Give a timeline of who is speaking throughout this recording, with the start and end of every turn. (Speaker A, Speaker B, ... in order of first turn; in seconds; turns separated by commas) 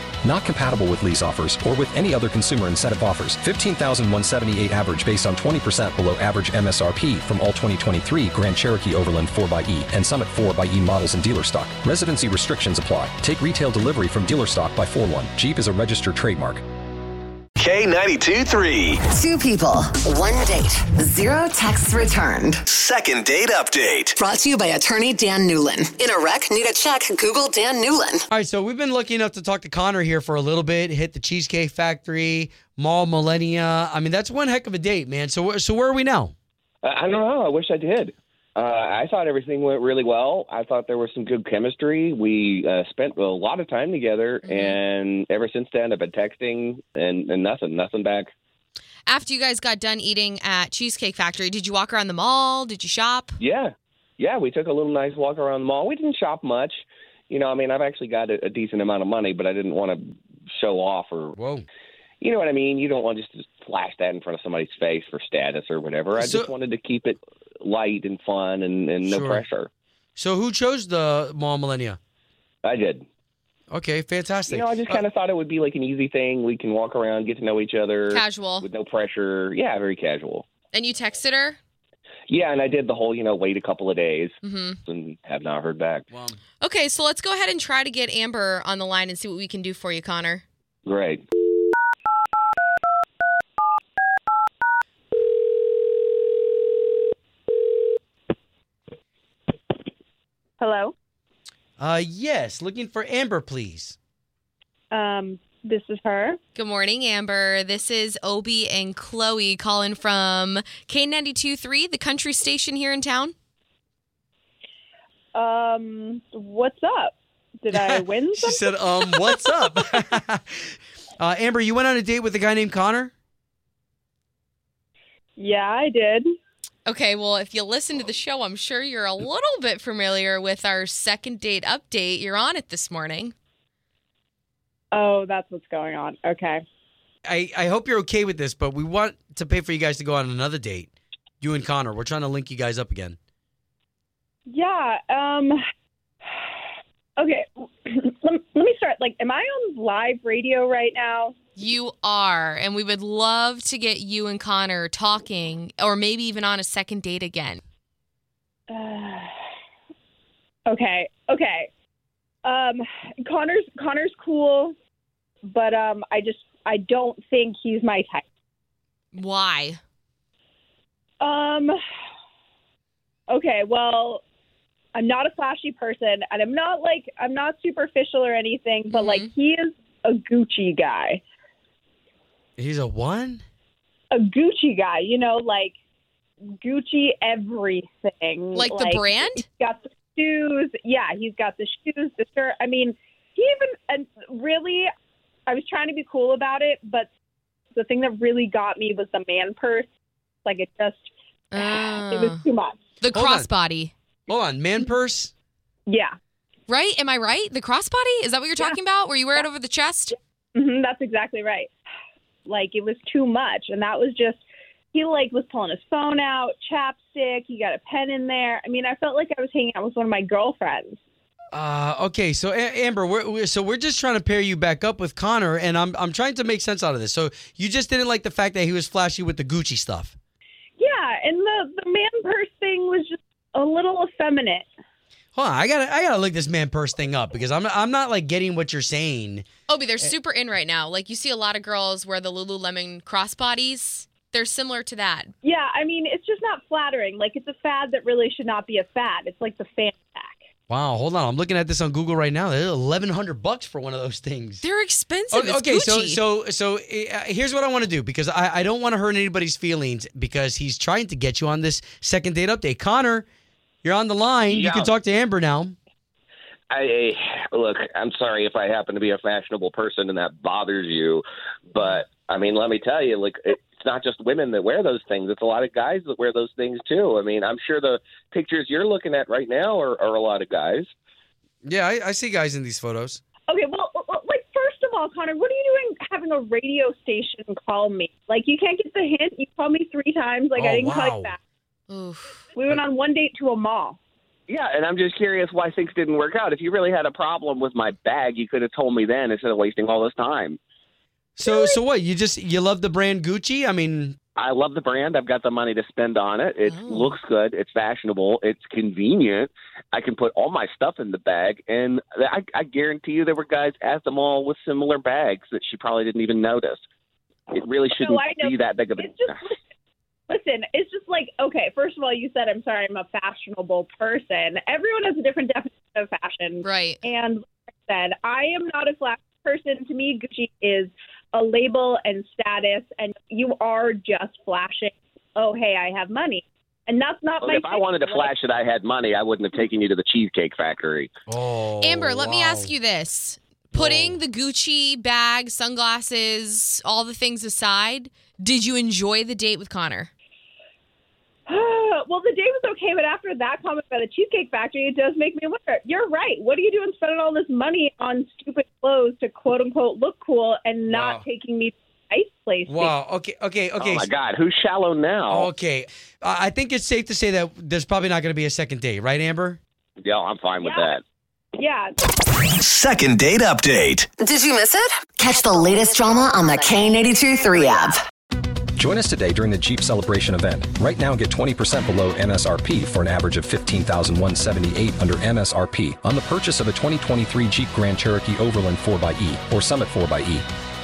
Speaker A: 0.2-16.6, Speaker B: 17.6-19.0, Speaker C: 19.1-22.6, Speaker B: 22.7-24.2, Speaker C: 24.2-28.2, Speaker D: 28.3-36.3, Speaker E: 36.8-48.3, Speaker F: 44.5-44.8, Speaker F: 49.1-53.4, Speaker E: 53.4-61.4, Speaker D: 61.4-61.6, Speaker E: 62.2-69.7, Speaker D: 66.2-66.5, Speaker D: 69.0-69.4, Speaker D: 70.2-72.0, Speaker E: 72.6-73.0, Speaker D: 73.7-75.0, Speaker E: 74.5-80.5, Speaker F: 78.1-78.7, Speaker F: 80.7-81.6, Speaker E: 82.3-86.1, Speaker F: 84.4-84.8, Speaker D: 86.1-86.4, Speaker F: 86.6-90.4, Speaker E: 90.9-91.2, Speaker G: 100.6-100.9, Speaker D: 101.8-104.0, Speaker G: 104.9-106.4, Speaker F: 106.5-113.3, Speaker G: 115.3-119.3, Speaker D: 117.7-123.1, Speaker G: 125.4-126.3, Speaker F: 126.9-133.3, Speaker G: 134.9-136.6, Speaker D: 137.2-143.2, Speaker G: 144.5-145.6, Speaker G: 147.2-151.3, Speaker F: 151.6-157.6, Speaker G: 158.7-159.3, Speaker G: 160.7-161.7, Speaker G: 162.4-164.7, Speaker G: 165.5-168.2, Speaker F: 169.1-169.8, Speaker G: 171.2-171.8, Speaker G: 173.3-174.2, Speaker G: 174.9-181.2, Speaker F: 178.9-179.3, Speaker D: 182.6-183.4, Speaker G: 184.1-185.7, Speaker G: 186.6-194.9, Speaker F: 188.5-189.4, Speaker G: 195.5-197.1, Speaker G: 197.7-199.9, Speaker G: 200.4-202.8, Speaker F: 201.5-202.4, Speaker F: 203.0-203.9, Speaker D: 203.1-203.5, Speaker D: 204.3-205.3, Speaker G: 205.9-206.1, Speaker F: 206.7-210.2, Speaker G: 210.6-211.7, Speaker G: 212.5-214.4, Speaker G: 214.9-221.0, Speaker D: 221.5-230.2, Speaker G: 230.8-234.7, Speaker D: 235.3-239.5, Speaker F: 239.7-245.3, Speaker G: 245.4-250.4, Speaker D: 250.7-254.6, Speaker F: 254.6-256.2, Speaker D: 255.3-263.3, Speaker D: 263.8-265.8, Speaker E: 264.5-264.9, Speaker E: 266.7-280.9, Speaker D: 281.6-283.2, Speaker G: 283.5-291.4, Speaker D: 290.6-291.3, Speaker F: 291.9-292.4, Speaker G: 292.6-294.0, Speaker E: 294.5-300.6, Speaker D: 301.4-304.2, Speaker G: 301.4-301.8, Speaker E: 304.4-316.9, Speaker F: 306.6-307.2, Speaker E: 317.5-319.4, Speaker G: 317.9-319.6, Speaker G: 320.3-338.3, Speaker F: 326.6-327.0, Speaker E: 337.4-341.1, Speaker D: 341.3-342.8, Speaker F: 341.8-350.1, Speaker D: 343.7-344.2, Speaker G: 351.5-363.0, Speaker D: 360.9-361.2, Speaker D: 362.7-364.1, Speaker E: 363.8-365.5, Speaker D: 365.3-369.6, Speaker E: 370.0-371.0, Speaker G: 370.6-370.9, Speaker G: 371.6-371.9, Speaker B: 372.6-374.1, Speaker C: 374.2-378.0, Speaker A: 378.8-390.5